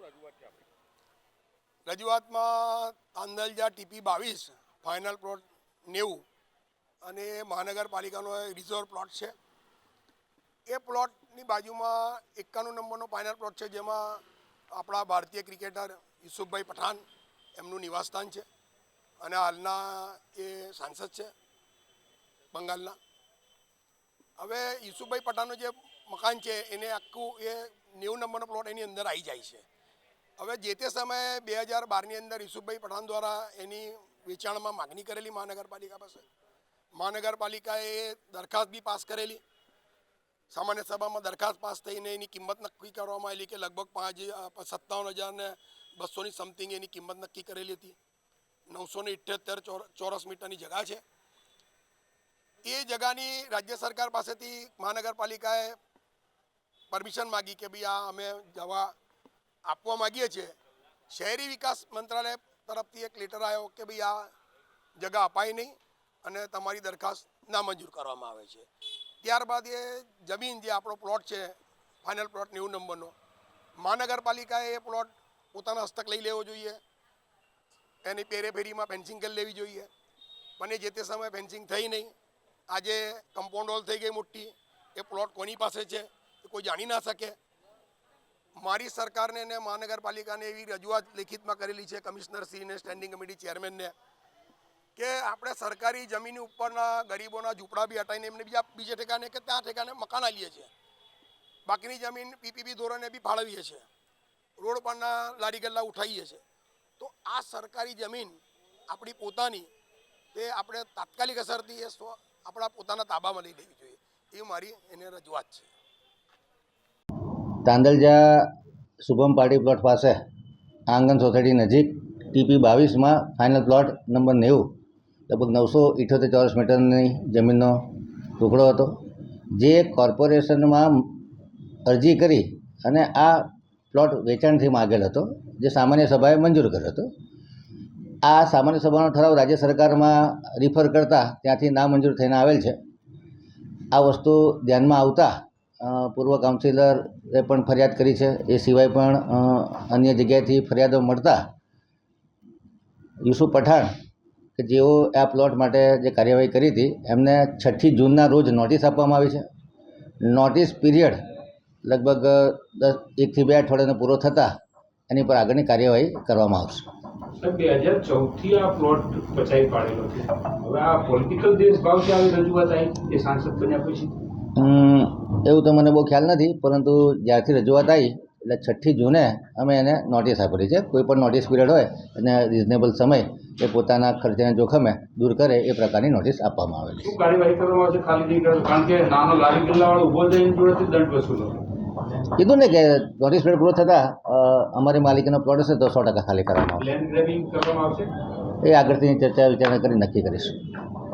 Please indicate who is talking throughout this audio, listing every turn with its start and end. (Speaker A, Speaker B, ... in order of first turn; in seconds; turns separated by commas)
Speaker A: 1.9-6.2, Speaker A: 7.0-9.3, Speaker A: 10.7-17.0, Speaker A: 17.6-18.4, Speaker A: 19.2-21.3, Speaker A: 22.5-23.0, Speaker A: 24.4-29.6, Speaker A: 30.4-36.2, Speaker A: 37.0-39.4, Speaker A: 40.5-48.0, Speaker A: 48.7-51.0, Speaker A: 52.6-55.8, Speaker A: 56.9-59.0, Speaker A: 59.7-60.5, Speaker A: 61.1-64.3, Speaker A: 65.0-68.7, Speaker A: 69.2-73.1, Speaker A: 73.8-76.8, Speaker A: 78.0-79.9, Speaker A: 80.6-82.1, Speaker A: 82.7-87.4, Speaker A: 88.6-93.9, Speaker A: 95.0-100.7, Speaker A: 101.7-103.9, Speaker A: 104.6-106.4, Speaker A: 107.0-108.4, Speaker A: 108.9-109.7, Speaker A: 110.3-115.7, Speaker B: 117.7-118.5, Speaker B: 119.0-120.2, Speaker B: 120.9-124.7, Speaker B: 125.3-128.9, Speaker B: 129.5-131.3, Speaker B: 131.9-137.1, Speaker B: 138.2-142.8, Speaker B: 143.9-151.5, Speaker B: 153.2-153.9, Speaker B: 154.6-159.5, Speaker B: 160.2-161.2, Speaker B: 161.8-164.6, Speaker B: 165.1-166.9, Speaker C: 167.4-174.2, Speaker B: 174.6-187.2, Speaker C: 187.0-191.6, Speaker B: 192.4-196.9, Speaker C: 196.8-198.1, Speaker B: 198.6-200.6